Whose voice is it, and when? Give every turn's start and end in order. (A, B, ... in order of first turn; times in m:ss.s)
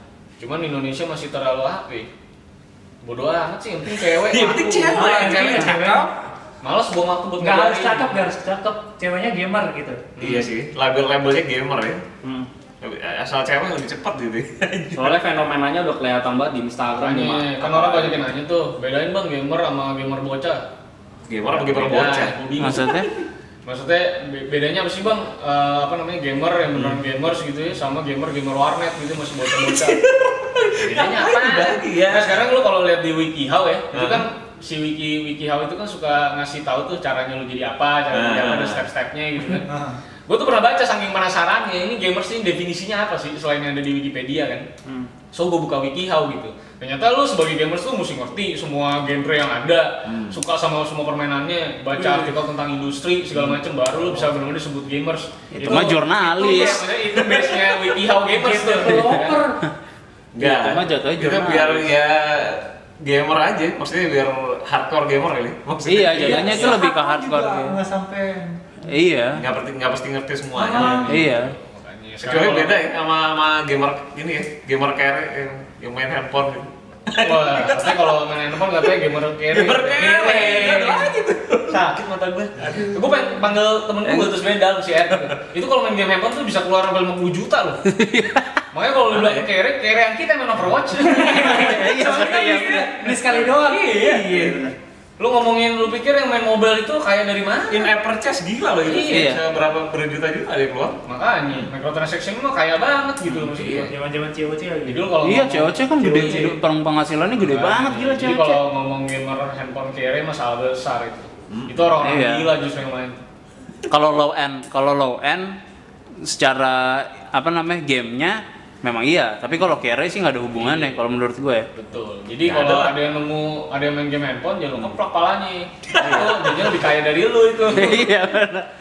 0:00.4-0:02.1 A
0:03.0-0:05.8 A
0:04.3-0:06.1 B
0:04.9-0:06.1 C
0:06.6-0:08.2 A
0:07.4-0:10.0 C
0:10.2-0:10.5 A
0:10.2-0:12.0 B
0:12.8-0:15.2 B
0:14.9-0:18.1 D
0:16.9-0:20.6 A
0:21.3-0:23.0 B
0:21.5-0:23.0 A
0:22.6-0:23.1 E
0:23.6-0:30.0 A
0:26.7-0:27.0 B
0:29.6-0:32.4 B
0:30.8-0:39.7 A
0:33.9-0:34.3 B
0:38.1-0:38.8 B
0:39.6-0:40.0 C
0:40.3-0:44.7 A
0:45.3-0:59.4 A
0:50.1-0:50.4 B
0:52.0-0:52.3 C
0:55.5-0:56.8 E
0:56.4-0:57.9 B
0:58.3-0:59.6 C
1:00.3-1:06.8 B
1:00.4-1:01.9 E
1:05.8-1:07.8 E
1:06.1-1:08.6 C
1:08.8-1:09.4 E
1:09.3-1:11.3 B
1:10.5-1:11.1 C
1:10.8-1:12.8 A
1:11.0-1:11.5 E
1:12.2-1:18.1 B
1:17.2-1:21.1 A
1:19.5-1:23.0 B
1:20.2-1:21.0 C
1:22.9-1:27.8 A
1:27.8-1:28.6 E
1:28.7-1:34.6 A
1:29.1-1:29.4 B
1:31.0-1:34.6 C
1:31.4-1:33.0 E
1:34.0-1:34.7 B
1:35.2-1:37.9 A
1:37.7-1:41.0 B
1:38.8-1:39.3 A
1:39.1-1:39.4 E
1:41.0-1:43.9 A
1:43.2-1:43.9 B
1:43.8-1:45.2 C
1:44.8-1:46.5 A
1:45.2-1:48.6 E
1:46.0-1:46.5 C
1:47.4-1:53.2 A
1:51.5-1:51.9 B
1:52.0-1:52.5 E
1:53.9-1:55.6 E
1:56.2-2:01.7 E
2:00.6-2:00.9 A
2:01.7-2:08.1 A
2:02.4-2:03.0 B
2:05.9-2:06.7 B
2:07.7-2:08.7 E